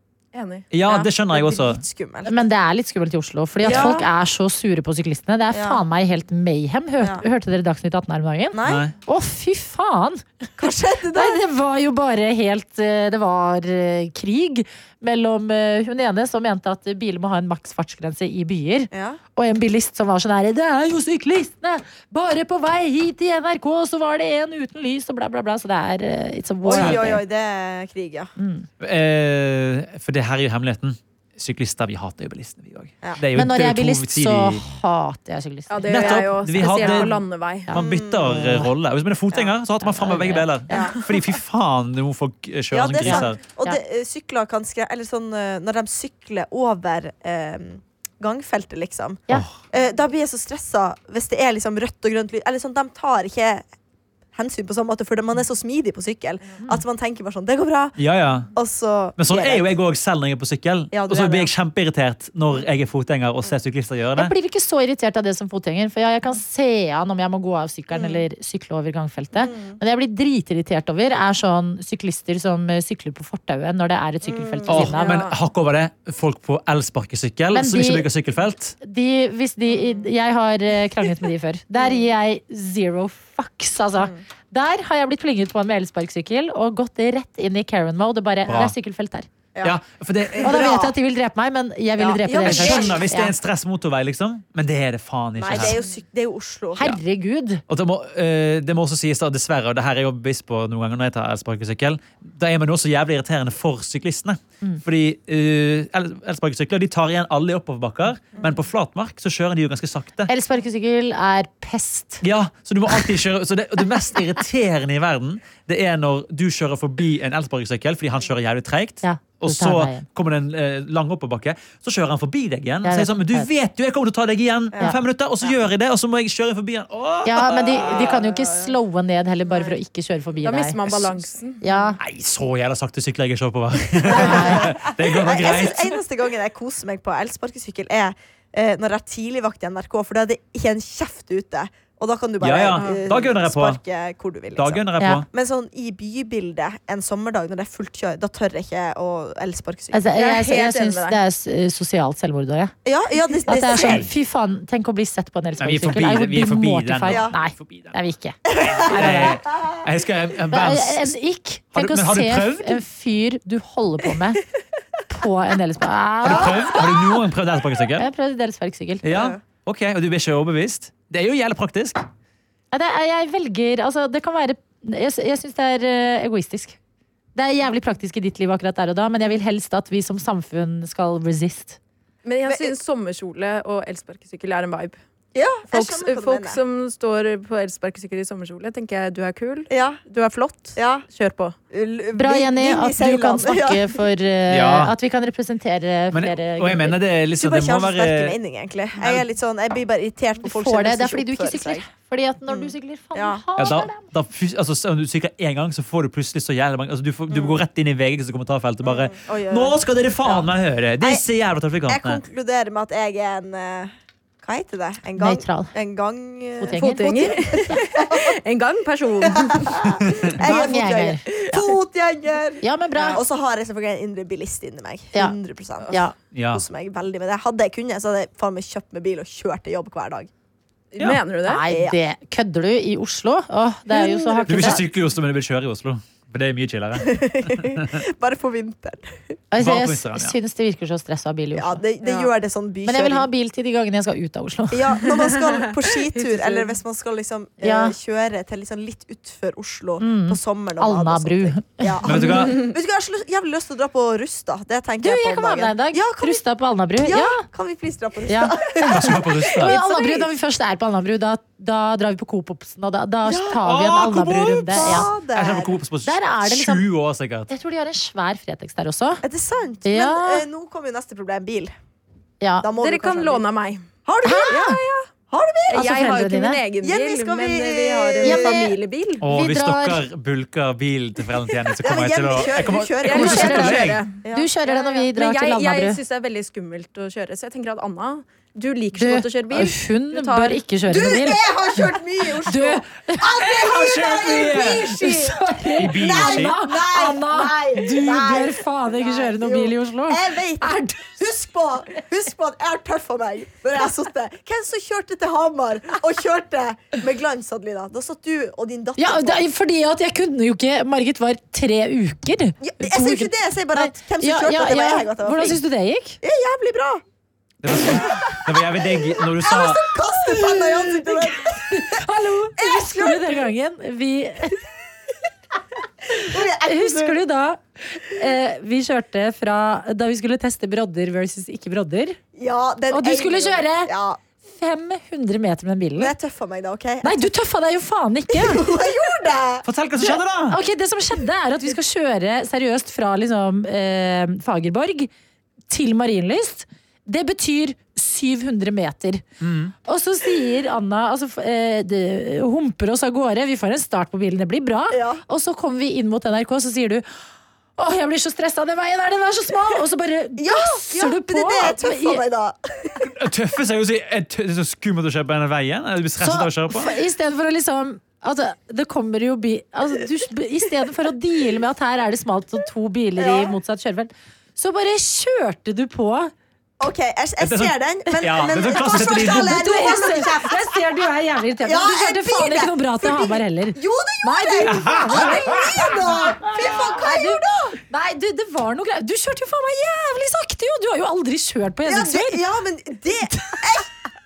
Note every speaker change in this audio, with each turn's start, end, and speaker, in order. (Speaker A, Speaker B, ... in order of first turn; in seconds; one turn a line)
Speaker A: 0.3-1.1
Speaker B: 0.7-1.8
Speaker C: 0.9-2.4
Speaker D: 2.2-10.5
Speaker C: 3.6-4.0
Speaker C: 5.5-5.8
Speaker C: 7.0-7.2
Speaker C: 8.5-8.9
Speaker B: 8.6-8.9
Speaker C: 10.6-11.4
Speaker D: 11.1-27.2
Speaker C: 18.9-19.2
Speaker C: 26.6-28.3
Speaker B: 26.7-27.0
Speaker D: 28.4-28.7
Speaker B: 28.8-34.6
Speaker D: 33.3-38.7
Speaker A: 35.7-37.7
Speaker B: 35.9-37.1
Speaker B: 37.7-43.4
Speaker C: 37.7-38.5
Speaker D: 39.8-40.9
Speaker C: 40.7-41.0
Speaker C: 42.7-53.6
Speaker D: 43.0-43.8
Speaker C: 54.3-58.0
Speaker B: 58.0-58.5
Speaker C: 58.5-59.7
Speaker B: 59.2-64.3
Speaker C: 60.9-61.5
Speaker D: 64.2-75.2
Speaker C: 67.9-68.2
Speaker C: 69.3-69.8
Speaker C: 74.2-75.0
Speaker B: 74.7-78.8
Speaker D: 77.5-78.0
Speaker D: 78.8-89.3
Speaker C: 79.7-80.1
Speaker C: 81.8-82.0
Speaker B: 88.5-88.7
Speaker B: 89.6-90.9
Speaker C: 90.3-90.9
Speaker D: 90.4-93.3
Speaker C: 92.0-93.0
Speaker B: 92.3-95.8
Speaker C: 95.4-96.9
Speaker D: 96.8-97.6
Speaker B: 97.7-110.3
Speaker D: 110.3-112.2
Speaker B: 112.2-128.0
Speaker D: 119.0-120.0
Speaker D: 122.8-123.5
Speaker C: 124.7-125.5
Speaker D: 127.2-130.9
Speaker C: 127.6-128.7
Speaker C: 129.5-129.7
Speaker A: 130.4-131.6
Speaker D: 131.6-132.0
Speaker B: 132.0-136.0
Speaker C: 134.0-150.1
Speaker D: 134.1-134.7
Speaker B: 142.4-143.8
Speaker A: 142.8-143.1
Speaker B: 144.5-145.2
Speaker D: 145.0-145.2
Speaker D: 149.9-152.7
Speaker A: 150.1-151.2
Speaker C: 152.8-154.1
Speaker D: 153.5-159.4
Speaker B: 155.6-157.9
Speaker C: 157.1-157.3
Speaker C: 158.5-159.7
Speaker B: 158.7-161.1
Speaker D: 160.5-164.4
Speaker B: 161.7-162.8
Speaker D: 165.1-166.8
Speaker B: 166.2-168.1
Speaker D: 168.0-169.0
Speaker B: 169.0-172.0
Speaker C: 169.1-169.4
Speaker D: 172.7-176.8
Speaker D: 177.3-181.8
Speaker A: 182.2-185.0
Speaker C: 182.4-182.8
Speaker C: 185.3-186.6
Speaker A: 185.7-191.6
Speaker C: 189.7-190.0
Speaker C: 190.7-191.0
Speaker C: 191.7-194.0
Speaker D: 192.1-197.0
Speaker B: 194.5-194.9
Speaker B: 196.1-198.4
Speaker C: 197.4-201.9
Speaker B: 199.0-199.2
Speaker D: 200.4-204.1
Speaker C: 202.5-203.4
Speaker B: 203.6-212.2
Speaker C: 207.3-207.6
Speaker C: 208.8-210.5
Speaker C: 211.9-218.3
Speaker D: 215.2-215.7
Speaker D: 216.6-217.4
Speaker A: 216.7-219.9
Speaker C: 219.2-226.0
Speaker D: 220.4-221.2
Speaker A: 221.4-221.7
Speaker D: 222.6-223.2
Speaker D: 225.9-226.1
Speaker B: 226.3-226.6
Speaker C: 226.5-230.3
Speaker A: 230.9-231.6
Speaker D: 231.4-234.8
Speaker C: 231.7-232.0
Speaker C: 233.9-234.8
Speaker B: 234.5-238.0
Speaker C: 237.0-239.3
Speaker D: 239.5-241.8
Speaker B: 239.6-240.3
Speaker C: 241.6-243.3
Speaker D: 242.8-245.1
Speaker C: 244.7-256.4
Speaker A: 245.3-246.7
Speaker D: 247.6-247.9
Speaker D: 250.0-252.0
Speaker B: 252.0-252.6
Speaker D: 255.0-257.4
Speaker C: 257.0-260.3
Speaker D: 258.3-265.1
Speaker B: 258.8-259.8
Speaker C: 263.2-263.6
Speaker B: 263.5-267.5
Speaker C: 264.7-265.8
Speaker D: 266.0-266.8
Speaker D: 267.5-269.2
Speaker C: 269.2-271.7
Speaker D: 269.8-270.4
Speaker D: 272.4-272.6
Speaker C: 272.6-273.4
Speaker A: 272.8-273.8
Speaker C: 274.0-274.8
Speaker D: 274.2-274.8
Speaker A: 274.5-275.1
Speaker C: 275.3-276.0
Speaker A: 275.7-279.2
Speaker D: 275.7-276.6
Speaker C: 276.8-278.7
Speaker D: 278.2-278.6
Speaker B: 279.2-284.0
Speaker D: 279.2-280.0
Speaker C: 281.8-284.5
Speaker A: 283.0-284.1
Speaker D: 283.2-286.0
Speaker A: 284.6-290.6
Speaker D: 288.9-291.5
Speaker C: 290.9-295.4
Speaker D: 292.4-300.9
Speaker B: 293.7-294.9
Speaker B: 295.8-296.6
Speaker C: 295.9-309.4
Speaker D: 309.0-316.2
Speaker C: 312.6-315.6
Speaker C: 316.2-317.0
Speaker B: 317.6-319.8
Speaker C: 317.9-318.2
Speaker C: 319.4-323.5
Speaker D: 320.3-324.6
Speaker C: 326.1-327.2
Speaker D: 326.2-332.2
Speaker C: 332.3-334.2
Speaker D: 332.9-333.9
Speaker D: 334.4-336.1
Speaker C: 336.0-337.3
Speaker D: 337.0-338.6
Speaker C: 338.3-339.6
Speaker B: 339.6-340.6
Speaker D: 340.0-345.1
Speaker D: 345.7-349.2
Speaker B: 349.4-349.7
Speaker D: 349.8-357.0
Speaker C: 354.9-355.2
Speaker D: 357.8-362.2
Speaker C: 360.4-363.1
Speaker B: 363.1-366.9
Speaker D: 366.2-376.3
Speaker C: 373.2-373.5
Speaker C: 376.8-380.8
Speaker B: 377.4-379.6
Speaker D: 378.7-392.4
Speaker C: 381.6-387.8
Speaker B: 384.7-385.5
Speaker C: 391.8-393.9